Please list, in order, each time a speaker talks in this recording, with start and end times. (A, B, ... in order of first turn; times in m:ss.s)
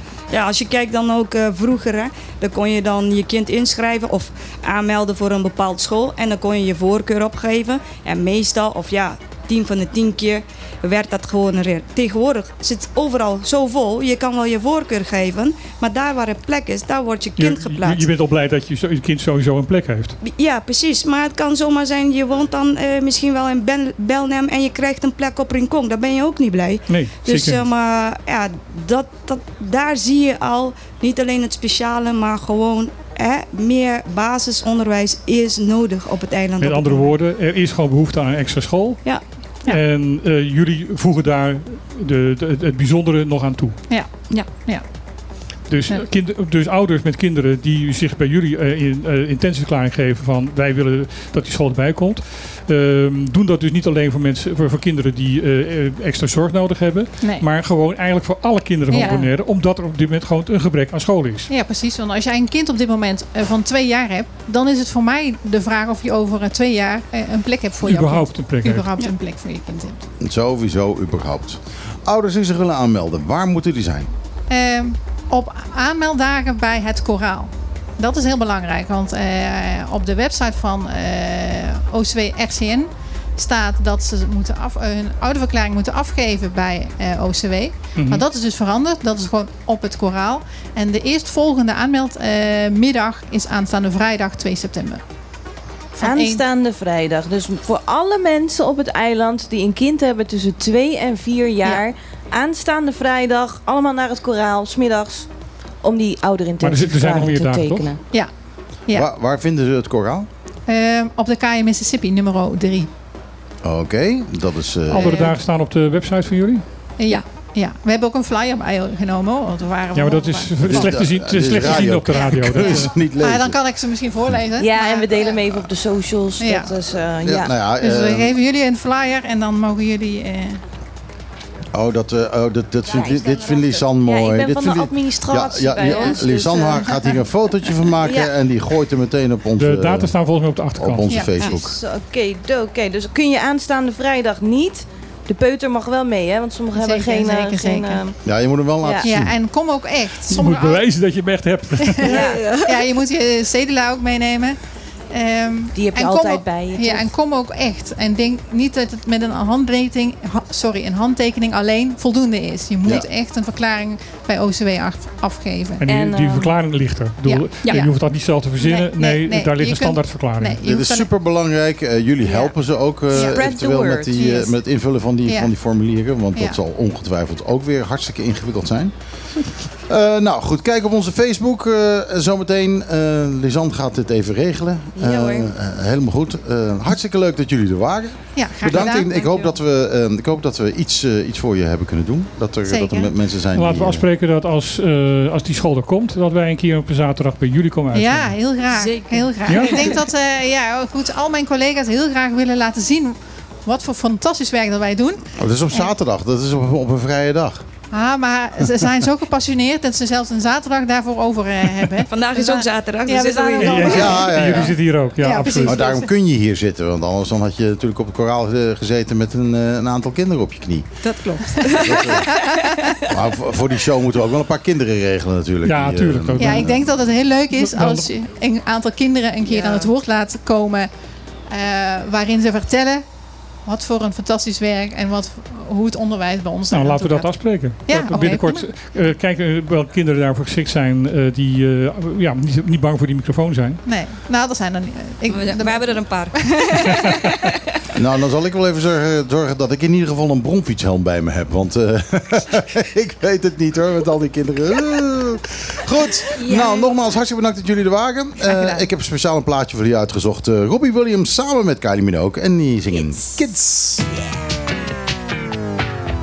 0:00.3-0:18.1 A
0:17.4-0:20.2 B
0:20.2-0:37.2 A
0:26.9-0:27.6 B
0:36.6-0:43.8 B
0:43.9-0:44.9 C
0:44.3-0:44.5 A
0:45.7-1:01.5 B
0:57.2-0:57.5 C
0:58.9-0:59.3 C
0:59.0-0:59.3 D
1:01.5-1:10.0 C
1:07.8-1:08.9 B
1:10.2-1:14.1 E
1:14.5-1:35.0 C
1:28.0-1:28.2 B
1:36.0-1:36.4 C
1:36.0-1:45.3 D
1:45.8-1:48.0 D
1:46.6-1:47.9 B
1:48.1-1:49.1 C
1:48.9-1:50.3 E
1:50.7-1:52.9 C
1:53.6-1:55.2 E
1:54.9-1:56.6 B
1:54.9-1:55.4 C
1:57.0-2:05.6 C
2:00.0-2:02.9 B
2:00.7-2:03.6 E
2:04.6-2:07.5 D
2:06.4-2:06.8 C
2:07.2-2:08.3 E
2:07.8-2:10.6 C
2:11.7-2:20.2 E
2:12.9-2:17.0 D
2:15.9-2:16.3 C
2:18.0-2:18.3 D
2:19.6-2:21.2 B
2:20.8-2:21.8 E
2:21.4-2:28.2 D
2:26.7-2:28.0 C
2:28.2-2:29.4 E
2:29.0-2:30.9 C
2:30.3-2:32.1 B
2:31.9-2:45.8 C
2:32.1-2:32.5 D
2:35.7-2:37.1 D
2:42.8-2:43.1 E
2:45.8-2:50.6 B
2:45.8-2:46.5 D
2:47.2-2:51.1 C
2:50.6-3:14.0 E
2:53.1-2:54.3 D
2:53.1-2:53.4 C
2:54.1-2:54.6 C
2:55.2-2:55.5 C
3:05.0-3:05.5 D
3:08.4-3:09.3 C
3:09.2-3:09.5 D
3:12.7-3:13.1 C
3:13.5-3:18.4 B
3:17.9-3:25.9 C
3:18.8-3:19.9 D
3:19.5-3:19.8 B
3:25.4-3:27.7 E
3:27.9-3:36.1 C
3:32.1-3:34.2 A
3:33.6-3:35.8 B
3:33.9-3:34.8 E
3:35.6-3:41.0 E
3:41.0-3:42.5 A
3:41.6-3:42.8 C
3:41.8-3:42.3 E
3:43.1-3:47.0 E
3:45.6-3:46.7 B
3:46.4-3:50.9 C
3:47.5-3:48.1 B
3:51.5-3:53.1 C
3:53.6-3:58.7 C
3:56.7-4:03.8 B
4:03.8-4:06.5 C
4:05.3-4:07.5 A
4:07.9-4:24.0 E
4:16.4-4:16.7 A